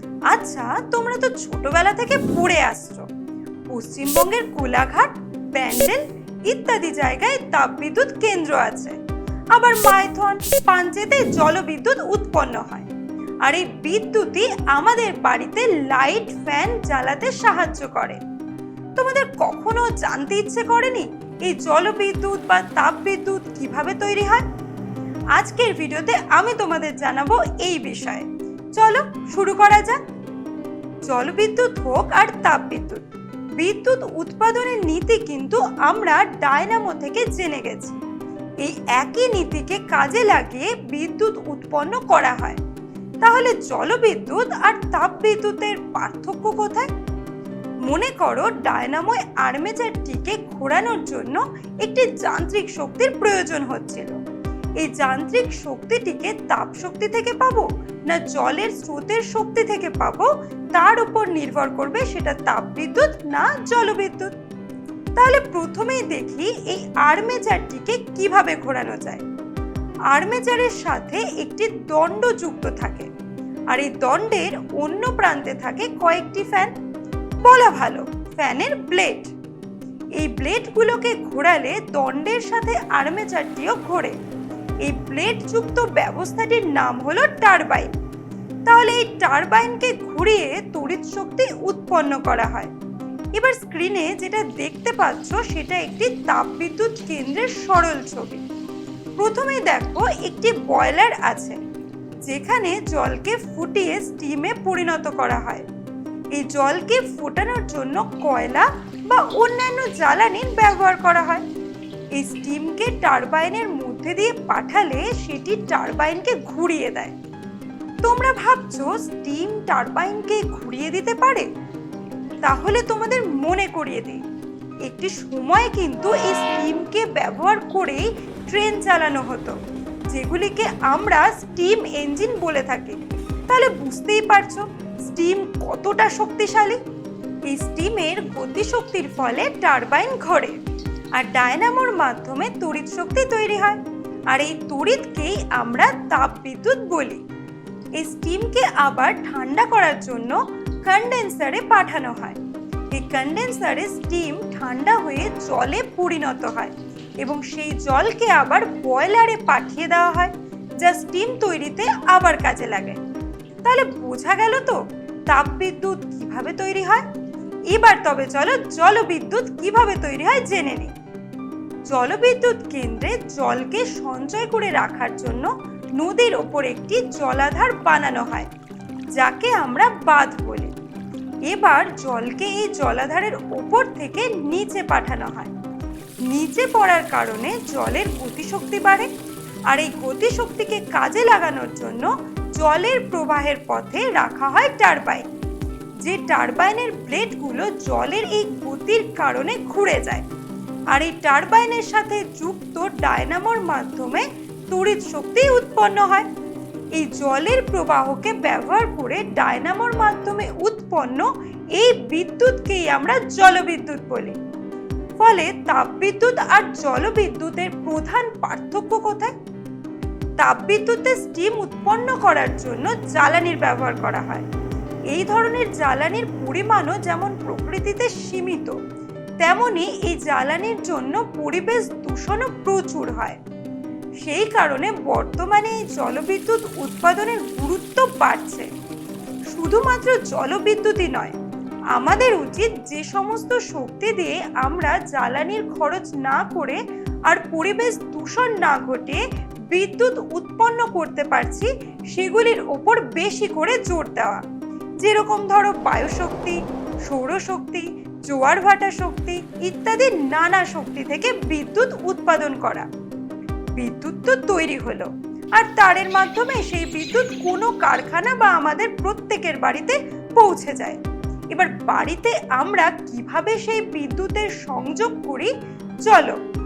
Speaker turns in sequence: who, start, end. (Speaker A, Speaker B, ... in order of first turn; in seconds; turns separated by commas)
Speaker A: 0.3-3.0, Speaker A: 3.7-9.0, Speaker A: 9.5-12.9, Speaker A: 13.4-18.2, Speaker A: 19.0-24.4, Speaker A: 25.4-30.0, Speaker A: 31.0-38.0, Speaker A: 38.6-42.6, Speaker A: 43.2-46.9, Speaker A: 47.9-54.1, Speaker A: 54.8-64.3, Speaker A: 65.2-69.2, Speaker A: 70.1-73.1, Speaker A: 73.7-76.7, Speaker A: 77.4-79.3, Speaker A: 80.2-84.2, Speaker A: 84.8-87.9, Speaker A: 88.7-92.7, Speaker A: 93.3-98.4, Speaker A: 99.2-101.6, Speaker A: 102.2-105.6, Speaker A: 106.3-111.4, Speaker A: 112.2-117.1, Speaker A: 118.0-121.5, Speaker A: 122.4-124.2, Speaker A: 124.8-129.6, Speaker A: 130.1-136.8, Speaker A: 137.5-140.6, Speaker A: 141.2-147.2, Speaker A: 148.0-152.4, Speaker A: 152.9-163.0, Speaker A: 163.6-167.0, Speaker A: 167.7-170.9, Speaker A: 171.9-178.5, Speaker A: 179.2-180.7, Speaker A: 181.5-185.5, Speaker A: 186.2-189.1, Speaker A: 189.7-195.3, Speaker A: 196.0-200.2, Speaker A: 200.9-206.3, Speaker A: 206.9-214.4, Speaker A: 215.2-219.3, Speaker A: 220.4-224.5, Speaker A: 225.1-228.7, Speaker A: 229.4-233.4, Speaker A: 234.2-238.7, Speaker A: 239.5-241.3, Speaker A: 241.9-254.4, Speaker A: 255.0-262.9, Speaker A: 263.8-271.0, Speaker A: 271.5-275.5, Speaker A: 276.0-276.4